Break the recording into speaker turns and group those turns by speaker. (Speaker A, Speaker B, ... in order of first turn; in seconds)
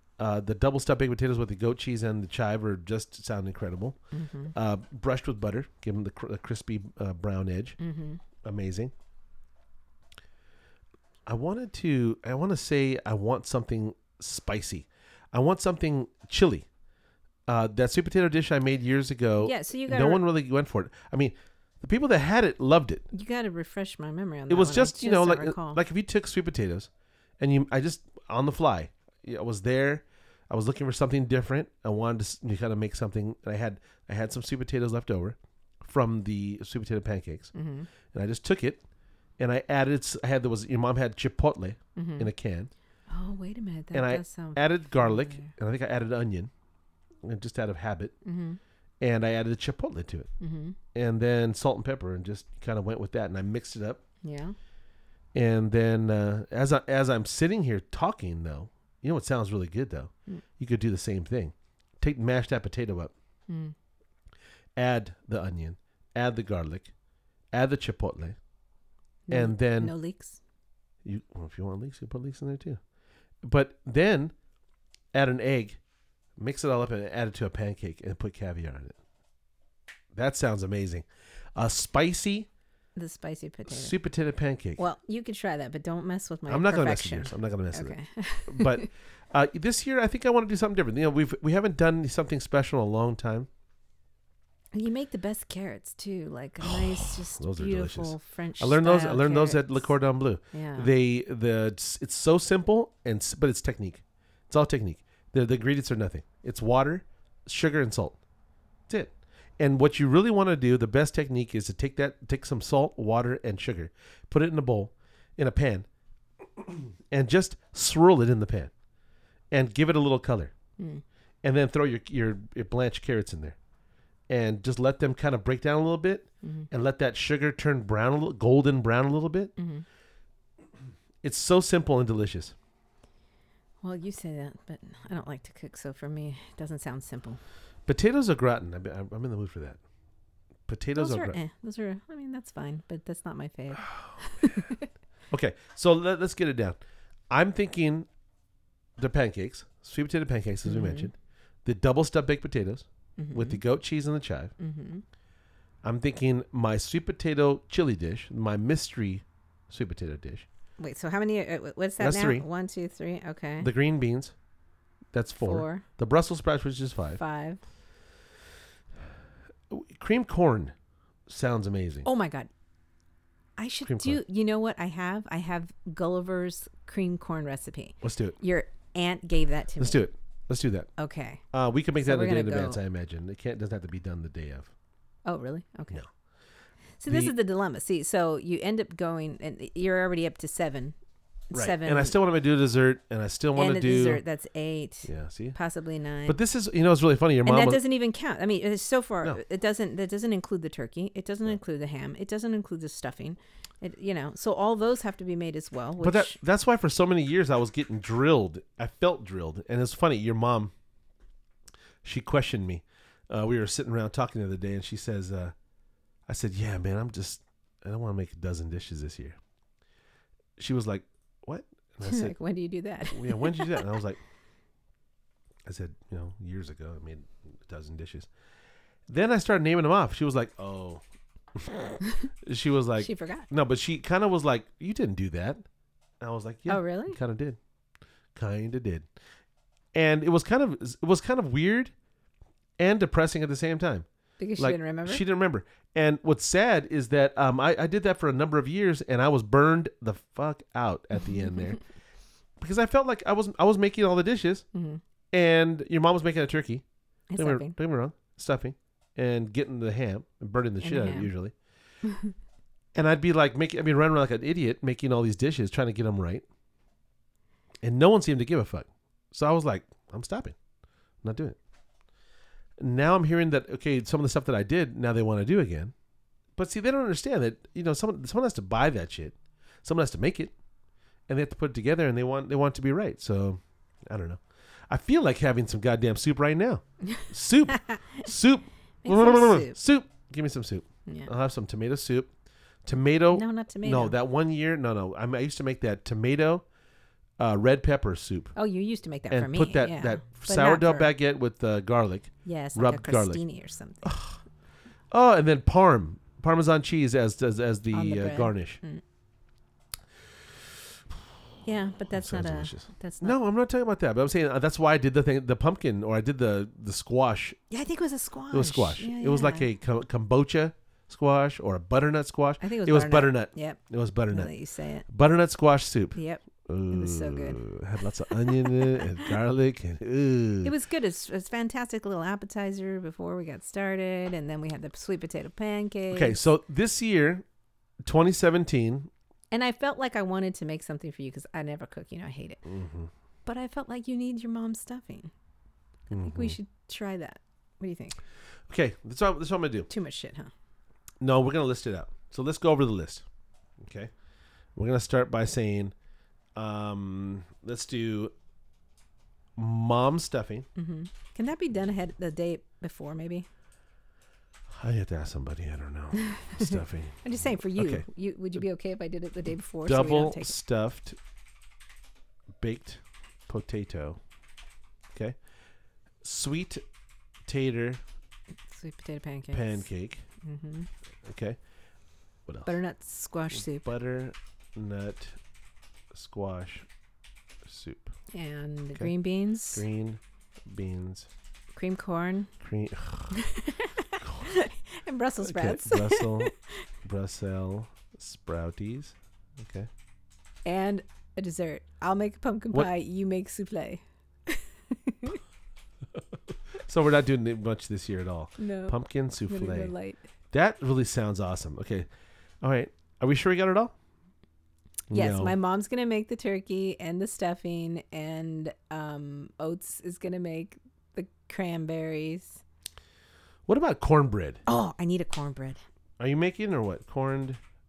Speaker A: 0.2-4.0, 4.5-7.8, 8.4-8.9, 11.2-16.6, 17.5-23.0, 24.5-26.9, 27.4-37.5, 38.1-38.8, 39.4-42.7, 43.9-46.5, 47.2-48.1, 49.0-50.3, 50.9-54.0, 55.3-63.1, 64.8-66.9, 67.5-68.4, 69.3-69.9, 71.0-72.8, 73.4-74.3, 75.1-75.8, 76.4-79.0, 80.1-82.5, 83.7-84.8, 86.5-93.5, 96.6-108.2, 108.9-115.9, 116.6-118.7, 119.5-120.5, 121.4-123.5, 124.3-129.5, 131.2-132.5, 137.9-139.8, 140.7-141.4, 144.0-144.5, 145.3-146.8, 147.3-148.1, 149.0-154.5, 155.8-160.5, 162.0-162.4, 163.6-164.3, 165.1-167.2, 169.7-170.7, 171.3-172.1, 173.8-174.2, 178.0-178.3, 179.8-180.9, 181.5-184.7, 187.1-187.3, 191.5-194.2, 195.0-195.6, 196.2-197.8, 206.0-210.7, 212.0-215.5, 216.3-219.4, 220.6-222.3, 223.0-224.2, 225.7-228.3, 229.1-231.0, 231.6-235.6, 236.2-237.6, 238.3-239.1, 239.9-241.9, 242.8-244.1, 244.6-251.8, 252.6-254.6, 255.3-256.8, 257.4-261.5, 262.9-266.4, 267.8-270.6, 271.2-271.6, 272.8-275.9, 276.6-280.5, 281.3-292.3, 292.8-296.6, 297.4-298.5, 299.3-303.4, 304.0-304.4, 305.1-308.8, 312.1-317.6, 318.5-324.5, 325.1-330.7, 336.1-337.4, 338.0-339.1, 342.6-343.1, 346.1-346.6, 348.7-349.9, 351.2-353.2, 353.8-354.1, 354.8-355.9, 356.6-358.3, 359.6-360.7, 364.8-368.1, 369.8-371.2, 372.6-374.2, 376.2-376.8, 377.5-378.0, 379.5-380.2, 381.2-381.6, 382.5-382.7, 383.5-385.4, 386.1-386.9, 387.6-388.1, 389.7-391.3, 392.6-393.4, 394.2-394.5, 395.4-396.5, 397.0-399.9, 406.8-409.9, 410.5-412.1, 412.6-413.9, 415.1-415.5, 423.7-424.6, 426.2-427.6
Speaker B: 4.1-4.5, 7.8-8.2, 19.4-20.2, 23.1-25.8, 37.5-37.9, 42.0-42.3, 43.1-45.5, 48.2-48.6, 50.4-50.8, 54.2-54.5, 63.5-63.7, 69.3-70.4, 83.0-83.9, 84.8-88.9, 94.7-99.9, 100.5-100.9, 120.8-121.0, 129.6-129.8, 133.8-137.4, 140.9-144.9, 150.6-151.1, 153.2-153.6, 154.6-155.0, 160.8-163.7, 165.4-165.8, 167.2-167.6, 172.0-172.5, 173.6-180.0, 181.0-181.4, 182.0-182.8, 185.2-186.0, 187.0-190.9, 191.5-192.2, 193.5-196.4, 197.4-206.3, 222.0-223.9, 233.0-233.5, 236.7-237.2, 244.4-245.2, 254.7-255.0, 257.3-257.7, 260.8-261.3, 262.0-262.3, 287.0-288.3, 289.0-289.8, 293.3-294.1, 298.5-301.1, 302.4-304.1, 307.9-309.0, 311.6-313.4, 317.7-319.7, 322.6-325.1, 326.1-329.3, 330.6-336.4, 339.5-342.6, 343.4-345.3, 346.1-348.2, 349.9-350.5, 360.8-363.5, 366.3-370.5, 378.7-379.9, 380.4-380.9, 382.6-383.9, 388.3-389.8, 391.7-392.5, 393.3-396.8, 400.6-405.4, 408.6-410.2, 415.1-422.6, 424.7-425.8